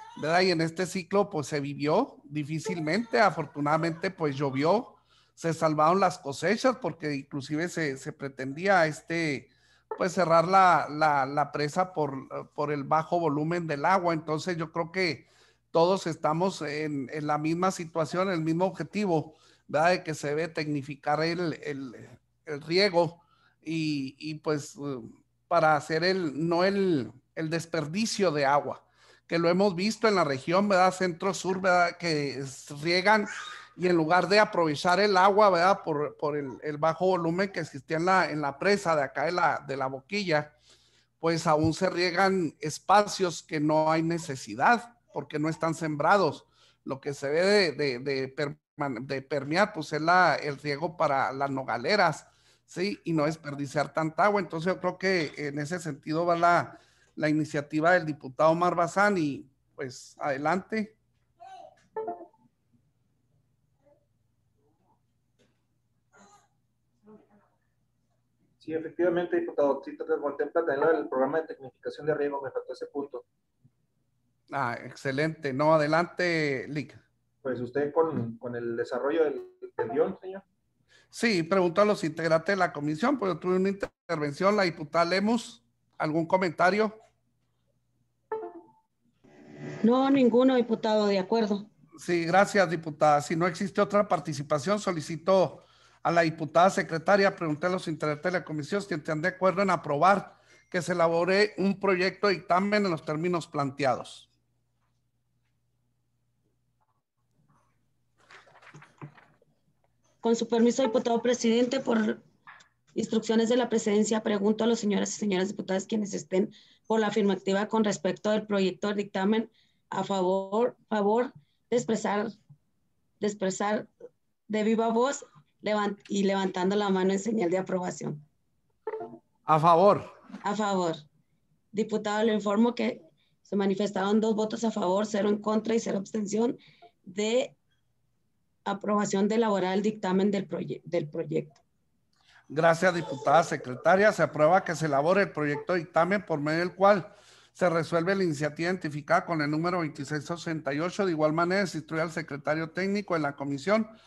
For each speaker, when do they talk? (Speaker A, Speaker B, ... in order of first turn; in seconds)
Speaker A: 0.2-40.5, 41.2-61.0, 74.5-77.0, 81.1-87.0, 92.0-104.3, 129.5-130.1, 142.5-153.9
Speaker B: 68.6-73.2, 77.4-80.4
Speaker C: 89.8-91.7, 110.2-112.2, 113.0-122.3, 123.2-123.9, 124.5-128.2, 130.4-131.0, 131.7-137.6, 138.7-141.6